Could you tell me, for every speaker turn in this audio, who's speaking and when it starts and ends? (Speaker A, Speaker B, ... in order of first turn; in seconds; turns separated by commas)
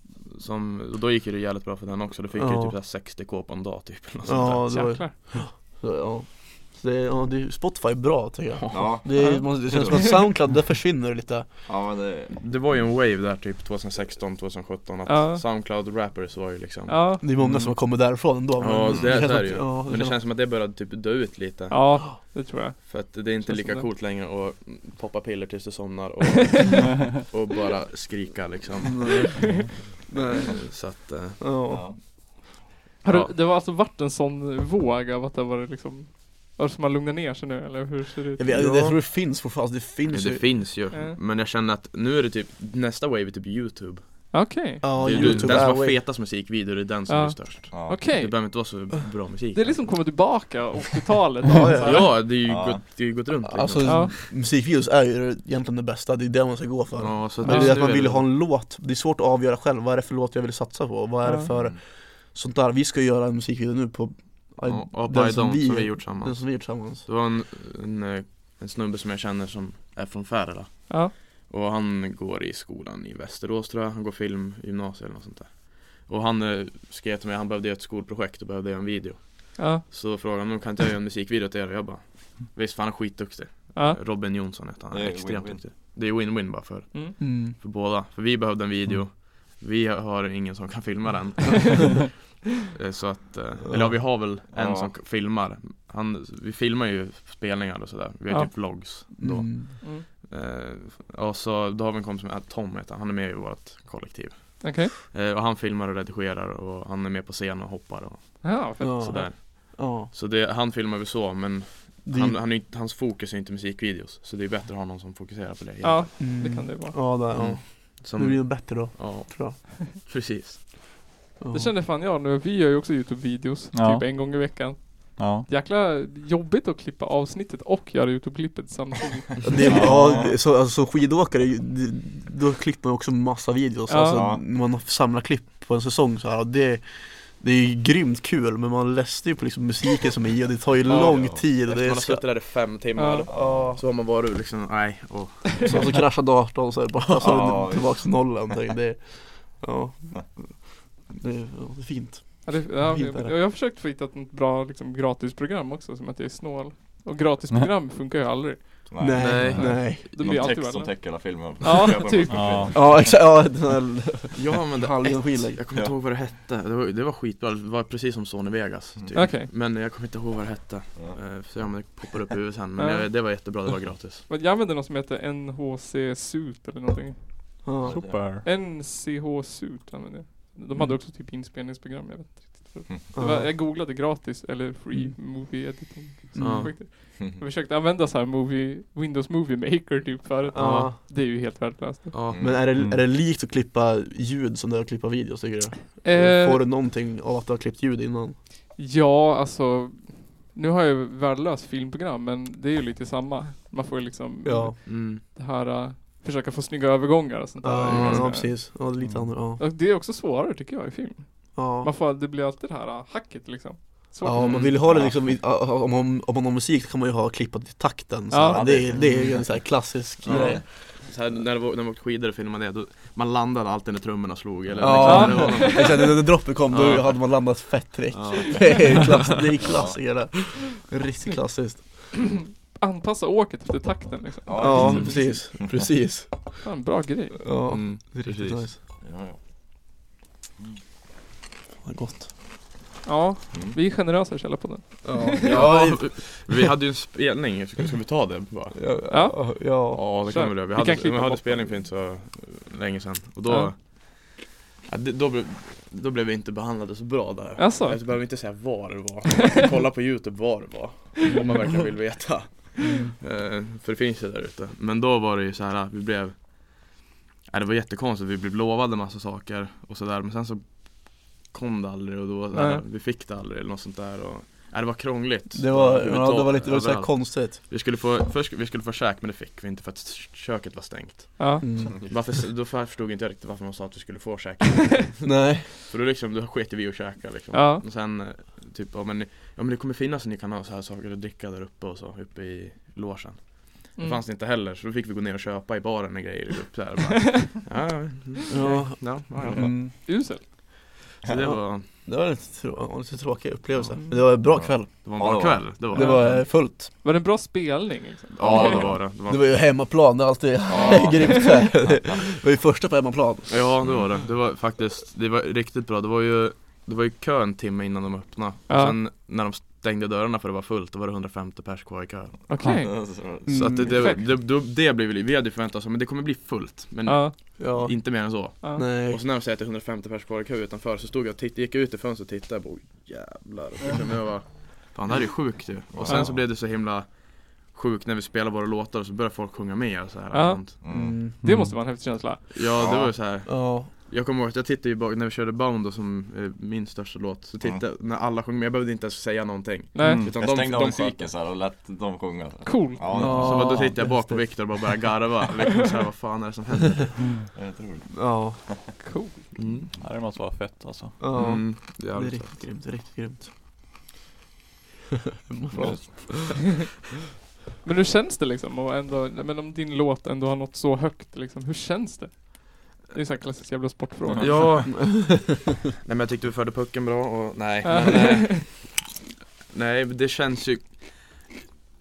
Speaker A: 0.3-5.1, Speaker B: 2.3-2.8, Speaker B: 4.2-11.6, Speaker C: 4.7-5.1, Speaker A: 8.6-9.0, Speaker D: 8.7-10.0, Speaker C: 9.2-10.1, Speaker D: 11.7-12.6, Speaker A: 12.3-17.8, Speaker C: 15.1-15.4, Speaker C: 16.9-17.2, Speaker B: 17.2-20.2, Speaker A: 18.6-22.4, Speaker D: 18.9-19.2, Speaker C: 21.7-23.9, Speaker A: 22.9-29.5, Speaker B: 28.9-32.1, Speaker A: 30.3-31.5, Speaker D: 31.7-32.0, Speaker C: 33.0-38.4, Speaker A: 33.0-33.3, Speaker B: 38.4-40.6, Speaker A: 38.5-39.0, Speaker A: 40.1-49.9, Speaker C: 40.9-41.2, Speaker C: 44.3-44.9, Speaker B: 44.8-46.0, Speaker D: 45.1-45.6, Speaker C: 47.1-48.4, Speaker D: 47.7-48.1, Speaker C: 49.5-52.0, Speaker B: 51.5-52.2, Speaker A: 51.6-54.1, Speaker D: 52.4-52.8, Speaker B: 53.4-67.0, Speaker C: 53.8-54.1, Speaker A: 57.0-58.3, Speaker C: 57.4-57.8, Speaker C: 61.2-61.5, Speaker D: 61.5-61.8, Speaker A: 64.6-92.1, Speaker C: 79.6-79.8, Speaker D: 84.9-85.6, Speaker B: 87.2-87.5, Speaker A: 92.6-116.2, Speaker B: 93.6-94.0, Speaker D: 94.5-94.9, Speaker C: 98.3-99.1, Speaker B: 99.2-99.8, Speaker C: 104.6-104.9, Speaker C: 108.4-109.3, Speaker B: 108.8-110.1, Speaker B: 112.0-112.4, Speaker C: 115.8-117.0, Speaker B: 116.2-119.6, Speaker A: 117.3-120.7, Speaker B: 121.4-121.7, Speaker C: 121.5-129.9, Speaker E: 123.7-125.5, Speaker B: 129.4-142.2, Speaker D: 129.6-130.3, Speaker C: 133.9-134.2, Speaker D: 134.1-134.4, Speaker D: 140.8-141.4, Speaker A: 140.8-145.8, Speaker C: 142.9-143.2, Speaker D: 143.3-143.7, Speaker B: 143.3-143.8, Speaker B: 145.7-153.4, Speaker D: 147.2-148.3, Speaker C: 152.4-162.7, Speaker D: 158.9-163.2, Speaker B: 159.0-160.4, Speaker A: 159.2-159.8, Speaker E: 162.3-163.0, Speaker B: 162.7-165.6, Speaker A: 164.3-174.2, Speaker D: 169.0-169.3, Speaker C: 169.1-169.5, Speaker D: 170.9-171.8, Speaker C: 172.8-173.4, Speaker C: 174.3-192.2, Speaker B: 177.6-178.1, Speaker D: 177.8-178.2, Speaker E: 177.8-178.4, Speaker B: 183.1-183.6, Speaker B: 184.9-185.7, Speaker B: 186.3-186.7, Speaker A: 186.4-186.8, Speaker B: 190.5-191.0, Speaker A: 190.6-190.9, Speaker A: 192.1-192.6, Speaker D: 192.3-192.7, Speaker B: 192.4-198.4, Speaker E: 192.7-193.0, Speaker C: 196.0-196.7, Speaker C: 198.8-208.9, Speaker B: 204.4-204.8, Speaker A: 204.9-205.2, Speaker B: 207.6-209.6, Speaker A: 207.8-208.3, Speaker E: 209.0-209.4, Speaker C: 209.6-214.7, Speaker B: 211.5-211.9, Speaker B: 214.2-220.6, Speaker A: 214.3-214.8, Speaker D: 214.8-215.1, Speaker C: 218.3-218.7, Speaker D: 218.4-220.6, Speaker A: 220.2-227.5, Speaker D: 224.7-225.1, Speaker B: 224.8-231.8, Speaker C: 225.0-225.9, Speaker A: 228.1-229.1, Speaker D: 229.6-230.0, Speaker C: 231.2-232.0, Speaker C: 232.6-235.1, Speaker D: 234.4-235.7, Speaker B: 234.6-236.7, Speaker C: 236.6-237.4, Speaker B: 237.4-238.8, Speaker A: 237.7-238.7, Speaker D: 239.0-239.4, Speaker B: 241.8-242.3, Speaker C: 243.0-245.4, Speaker D: 243.5-243.8, Speaker B: 245.0-246.7, Speaker A: 245.4-249.2, Speaker B: 248.7-250.0, Speaker C: 249.1-251.7, Speaker A: 249.9-299.7, Speaker C: 253.4-253.7, Speaker C: 257.6-258.1, Speaker B: 262.8-263.1, Speaker C: 272.5-272.8, Speaker B: 275.5-277.6, Speaker C: 281.4-281.6, Speaker B: 281.6-282.1, Speaker B: 285.2-285.7, Speaker C: 287.5-287.8, Speaker C: 294.0-294.2, Speaker B: 298.5-300.5, Speaker C: 298.6-298.8, Speaker C: 299.9-300.4, Speaker A: 301.2-301.9, Speaker B: 301.4-306.9, Speaker D: 304.4-306.4, Speaker A: 305.0-306.3, Speaker C: 305.9-308.9, Speaker A: 308.3-309.9, Speaker D: 308.4-308.9, Speaker B: 308.5-313.6, Speaker D: 310.7-312.2, Speaker A: 313.5-322.5, Speaker D: 313.8-314.1, Speaker C: 318.7-319.0, Speaker C: 322.5-324.2, Speaker D: 322.7-324.1, Speaker B: 323.4-324.0, Speaker A: 323.5-340.8, Speaker C: 327.0-327.5, Speaker B: 327.6-329.2, Speaker C: 328.6-328.9, Speaker D: 335.9-336.4, Speaker C: 340.3-342.5, Speaker D: 340.8-341.2, Speaker B: 340.9-341.4, Speaker E: 341.4-341.8, Speaker A: 342.5-351.3, Speaker D: 342.7-343.2, Speaker B: 343.4-343.9, Speaker C: 349.9-350.3, Speaker E: 350.0-350.3, Speaker D: 350.3-354.0, Speaker C: 352.6-353.1, Speaker B: 353.1-354.8, Speaker A: 353.1-357.2, Speaker E: 357.2-357.5, Speaker D: 357.5-358.7, Speaker B: 358.1-359.0, Speaker C: 359.0-359.4, Speaker A: 359.6-359.9, Speaker E: 360.0-361.2, Speaker B: 361.2-363.5, Speaker A: 361.3-362.6, Speaker B: 365.5-366.5, Speaker D: 365.7-366.6, Speaker C: 367.8-374.8, Speaker D: 374.3-374.6, Speaker A: 374.4-375.5, Speaker B: 374.9-375.6, Speaker A: 376.0-379.0, Speaker C: 377.8-378.6, Speaker A: 379.7-381.4